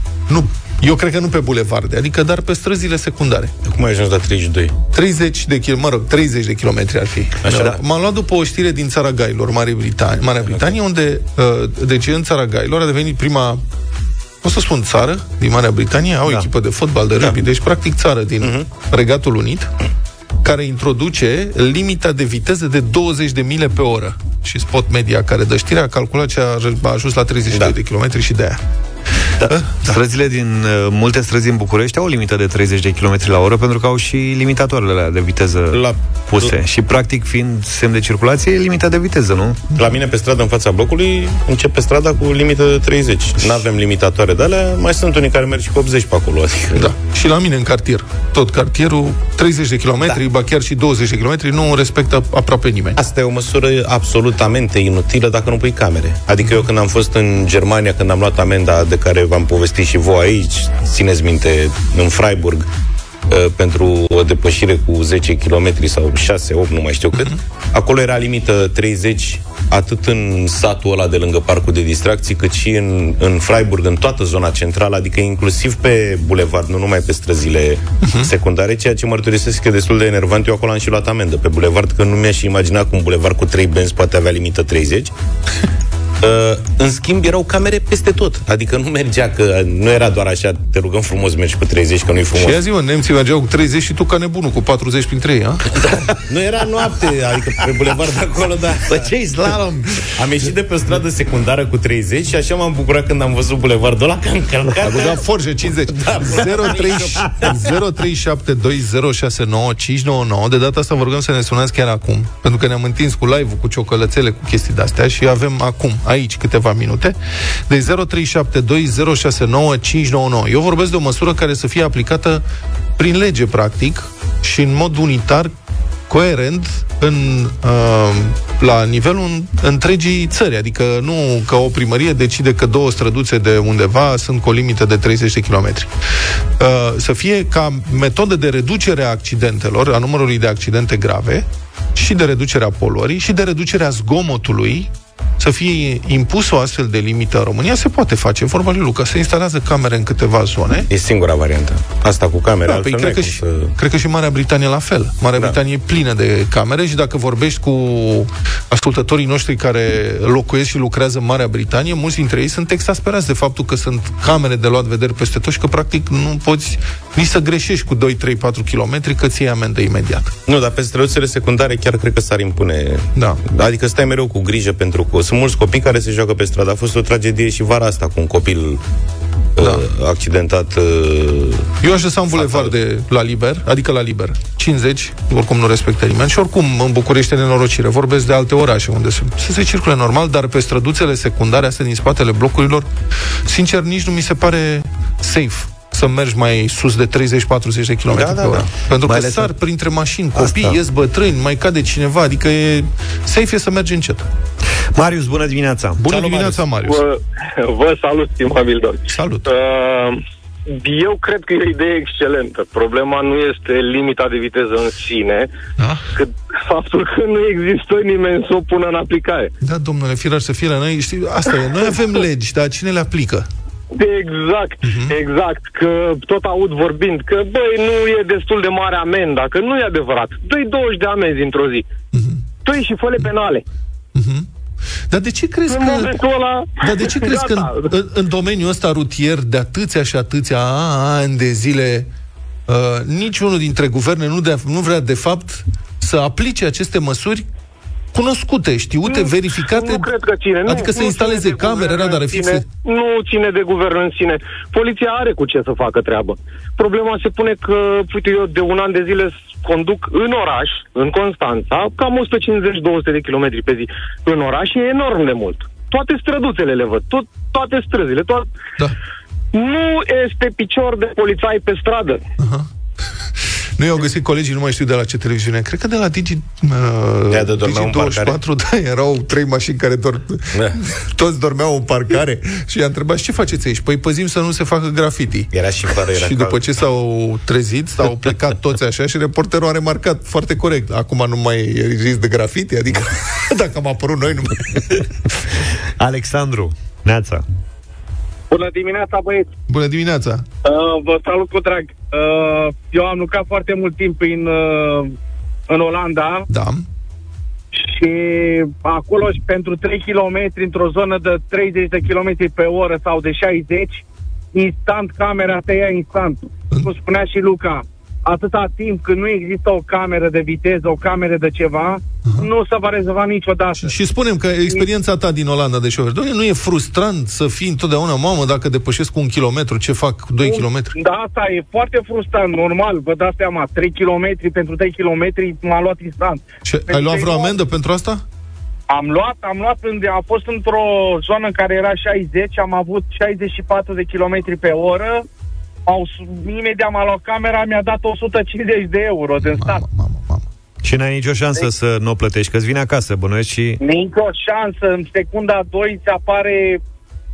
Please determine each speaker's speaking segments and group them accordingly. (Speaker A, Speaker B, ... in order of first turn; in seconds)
Speaker A: 0.3-3.5, 4.9-13.6, 14.4-19.7, 20.4-28.6, 29.4-30.0, 46.7-53.0, 78.0-78.3, 92.3-95.7, 104.8-117.2, 117.7-122.4, 123.0-125.5, 126.1-135.9, 136.6-150.9, 152.7-170.3, 173.2-173.4, 179.6-179.8, 181.8-192.9, 193.4-204.3, 206.0-207.0, 209.1-209.5, 215.8-216.1, 219.6-223.5, 224.8-225.2, 232.1-232.4, 234.1-234.5, 235.1-236.2, 236.8-242.1, 242.7-247.5, 248.1-250.1, 250.7-252.7, 272.4-272.7, 273.4-285.5, 286.1-295.1, 299.7-300.5, 306.5-306.9, 323.8-331.0, 336.6-338.2, 349.4-350.5
Speaker B: 3.6-4.8, 7.4-7.8, 18.4-18.7, 35.7-36.5, 39.8-46.9, 53.0-62.7, 63.3-85.1, 86.2-92.6, 95.7-99.1, 100.2-105.2, 105.9-107.7, 150.9-153.7, 170.5-178.8, 179.6-181.7, 182.4-182.7, 198.1-198.7, 206.1-206.6, 277.3-278.4, 280.5-280.9, 285.5-286.6
Speaker C: 29.4-39.7, 98.9-99.9, 199.1-199.5, 200.4-200.8, 205.0-206.0, 296.0-297.4, 350.8-353.8
Speaker D: 206.8-215.5, 216.2-219.5, 223.9-231.8, 232.6-233.6, 235.7-237.9, 249.1-268.5, 269.5-272.2
Speaker E: 298.5-299.5, 300.6-305.1, 305.7-306.5, 307.7-314.0, 314.5-323.9, 330.4-337.6, 338.9-345.2, 345.9-349.8, 353.8-356.8